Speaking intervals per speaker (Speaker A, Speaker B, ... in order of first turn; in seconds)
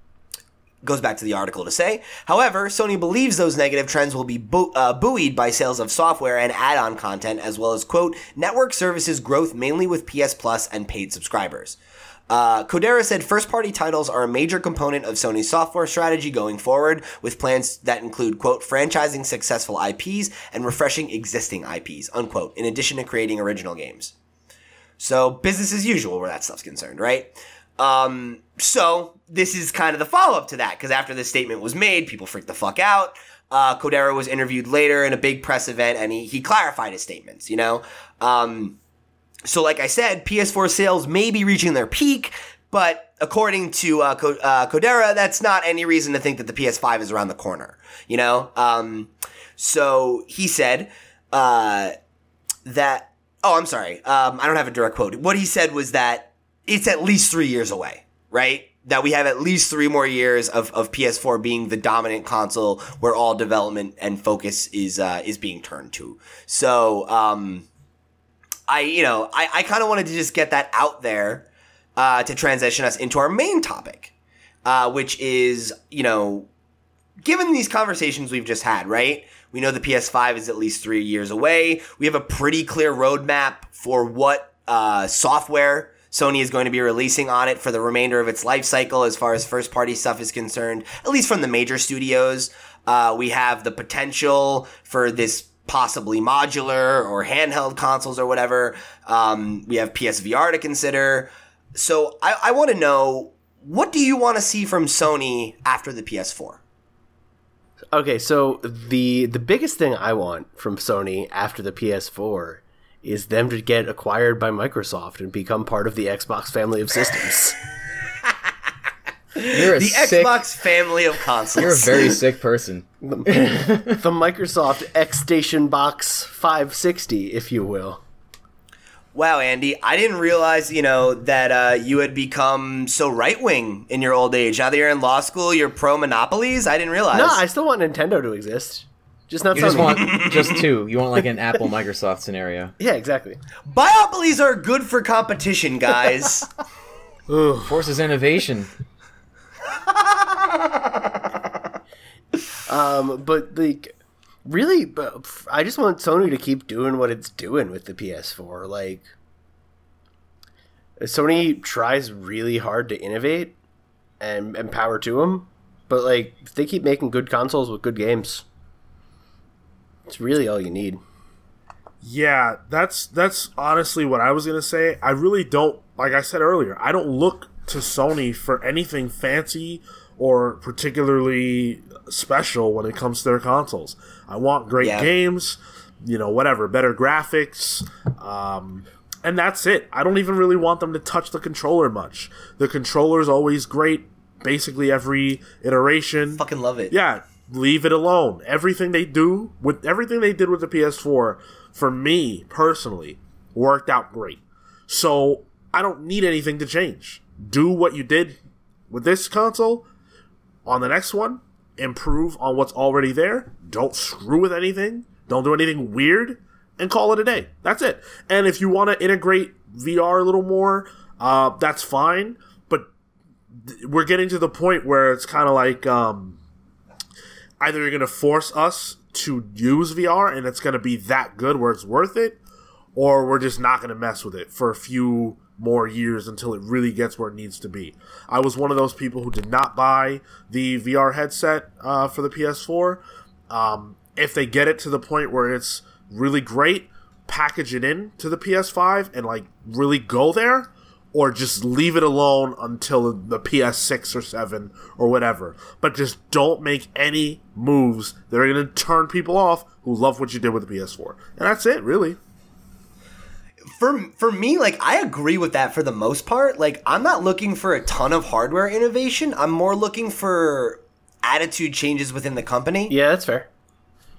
Speaker A: 0.8-11.8, 12.3-24.1, 25.0-38.8, 39.4-51.9, 52.6-67.7, 68.7-74.1, 74.6-76.5, 77.2-106.6, 119.3-122.2, 129.1-137.4, 139.6-140.6, 143.7-146.5, 184.8-185.1, 196.4-196.9, 263.8-272.9
Speaker B: 107.9-117.6, 123.0-128.0, 137.1-140.6, 142.8-143.4, 152.7-159.1, 161.0-163.6, 164.2-168.4, 170.1-171.0, 272.9-273.5
Speaker C: 119.5-120.4, 121.6-124.0, 139.5-142.7, 147.6-148.7
Speaker D: 147.3-147.8, 172.0-208.4, 208.9-209.8, 210.7-222.9, 223.6-226.4, 227.6-232.4, 232.9-262.2